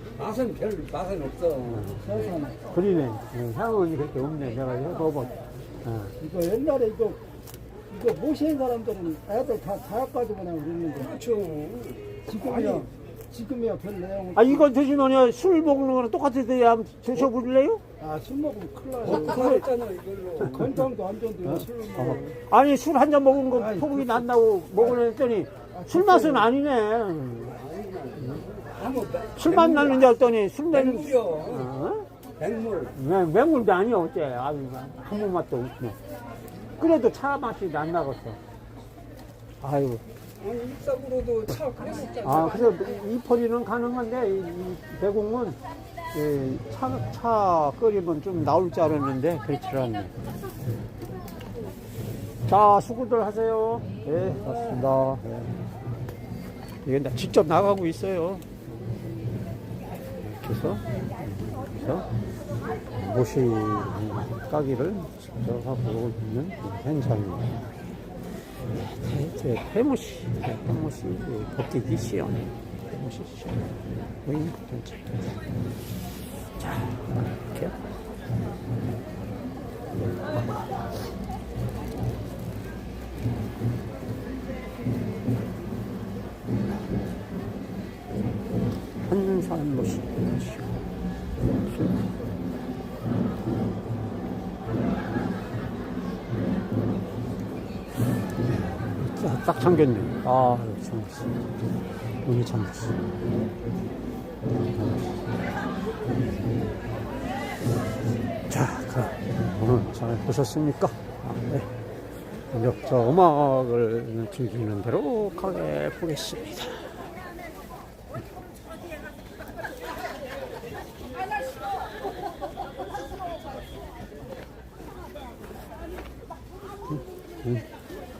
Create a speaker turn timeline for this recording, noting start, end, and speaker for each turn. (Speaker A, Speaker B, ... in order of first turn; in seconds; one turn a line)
Speaker A: 0.1-2.6
Speaker B: 2.7-6.1
Speaker A: 6.2-7.2
Speaker A: 7.9-14.6
Speaker B: 14.3-17.8
Speaker A: 18.0-22.3
Speaker B: 19.0-19.7
Speaker B: 20.4-20.9
Speaker B: 21.4-27.6
Speaker A: 23.5-24.2
Speaker A: 25.7-26.5
Speaker A: 27.5-30.2
Speaker B: 29.4-32.1
Speaker A: 30.7-31.7
Speaker A: 32.4-32.9
Speaker B: 32.9-36.0
Speaker B: 36.8-38.4
Speaker B: 39.6-40.0
Speaker A: 40.4-43.1
Speaker B: 42.2-45.6
Speaker B: 46.1-50.2
Speaker B: 52.5-55.6
Speaker B: 56.8-58.6
Speaker B: 60.2-62.1
Speaker B: 62.9-67.8
Speaker B: 68.6-75.5
Speaker B: 76.6-77.8
Speaker B: 80.2-80.7
Speaker B: 89.1-90.8
Speaker B: 91.6-92.1
Speaker B: 98.4-101.7
Speaker B: 102.2-103.0
Speaker B: 104.5-105.3
Speaker B: 108.5-111.7
Speaker B: 112.5-117.0
Speaker B: 126.9-127.6